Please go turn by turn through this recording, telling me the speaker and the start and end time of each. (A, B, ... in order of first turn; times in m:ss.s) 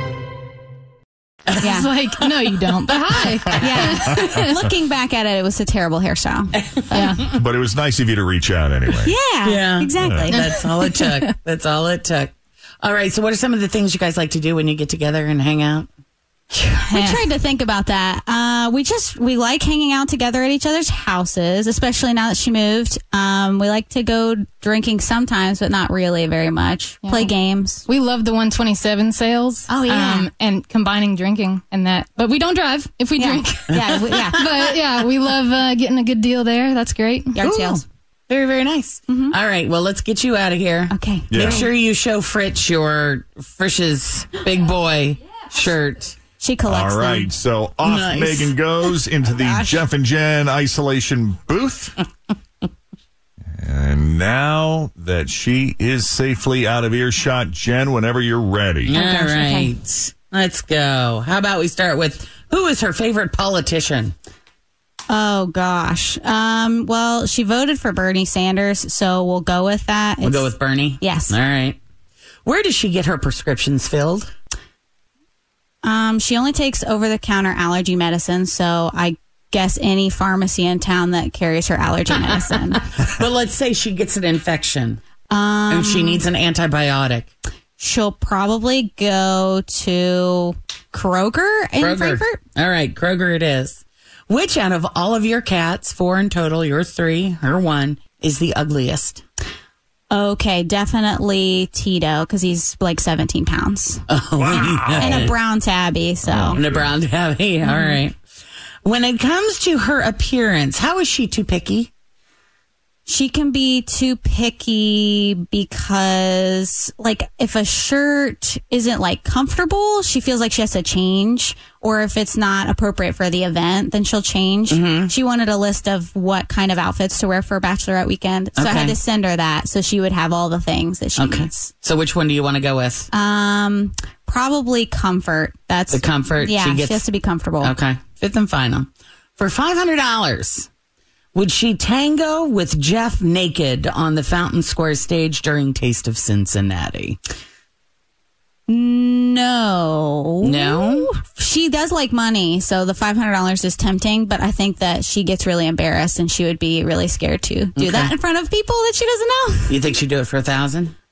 0:01.5-0:04.2 A
0:01.6-0:01.9 B
0:01.6-0:04.6 C
0:03.5-0:07.1 B
0:06.6-0:07.3 A
0:06.9-0:07.2 C
0:07.3-0:09.1 D
0:09.0-0:10.5 B
0:09.4-0:15.9 A
0:10.0-0:10.4 D
0:10.4-0:11.2 C
0:16.6-0:17.3 C
0:16.9-0:27.8 B
0:27.0-0:27.3 C
0:27.9-0:37.4 C
0:29.7-0:30.3 B
0:33.2-0:34.7 B
0:33.7-0:34.7 A
0:37.3-0:37.8 B
0:37.4-0:46.2 A
0:39.1-0:39.4 B
0:40.9-0:41.6 B
0:41.3-0:41.7 D
0:46.4-0:47.3 B
0:46.7-0:52.0 D
0:47.8-0:49.0 A
0:49.4-0:49.7 B
0:53.6-0:58.9 D
0:58.9-1:04.1 A
0:58.9-0:59.7 B
1:05.1-1:11.4 B
1:10.2-1:11.8 A
1:12.4-1:14.3 A
1:15.8-1:22.8 B
1:22.2-1:25.0 A
1:25.3-1:26.2 B
1:25.7-1:27.3 A
1:27.8-1:32.4 B
1:31.8-1:39.2 A
1:40.1-1:44.0 B
1:44.1-1:45.3 A
1:44.5-1:45.3 D
1:44.6-1:46.6 B
1:46.2-1:46.9 D
1:46.5-1:48.2 A
1:47.6-1:48.0 B
1:48.8-1:51.9 A
1:53.1-2:11.7 B
2:04.7-2:05.1 A
2:08.6-2:09.0 A
2:11.2-2:13.1 A
2:13.1-2:17.7 B
2:15.9-2:17.1 A
2:17.6-2:20.7 A
2:21.3-2:27.2 A
2:28.7-2:39.8 B
2:30.4-2:31.1 A
2:37.8-2:38.1 A
2:39.7-2:40.9 A